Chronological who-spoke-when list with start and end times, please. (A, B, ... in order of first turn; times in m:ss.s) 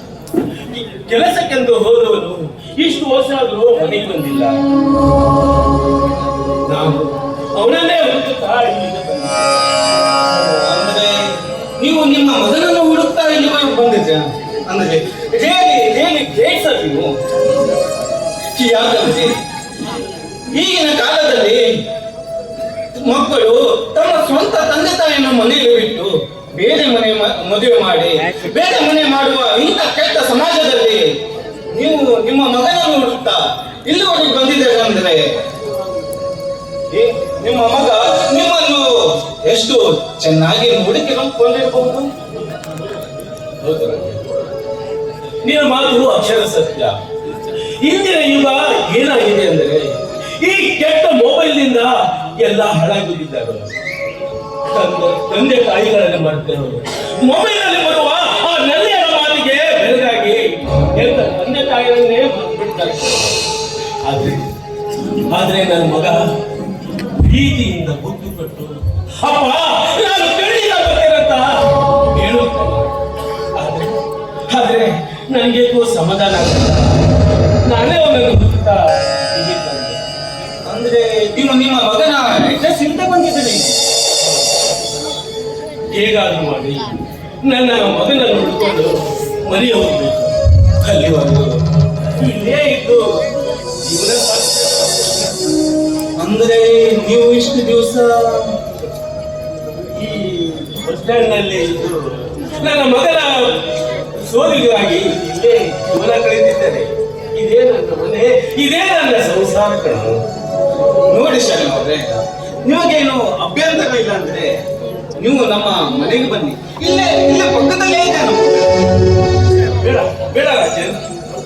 0:00.7-0:04.6 A
0:06.7-0:09.5 A
0:10.3-0:17.2 B
0:18.5-0:19.4 B
0:20.5-0:21.8 B
0:22.9-0:31.2 B
0:31.7-0:35.3 B
0:36.9-0:42.1 B
0:43.6-0:44.3 A
0:45.4-0:47.0 A
0:47.8-0:53.7 A
0:54.7-1:03.4 A
1:04.0-1:04.5 A
1:05.3-1:06.2 A
1:07.2-1:12.9 A
1:13.5-1:13.9 A
1:14.5-1:17.0 A
1:17.6-1:20.0 A
1:20.6-1:23.8 B
1:25.9-1:31.6 A
1:32.2-1:33.1 A
1:33.8-1:35.3 A
1:36.2-1:38.6 B
1:39.9-1:50.2 A
1:51.1-1:54.6 B
1:55.2-1:58.7 B
1:59.6-2:01.0 A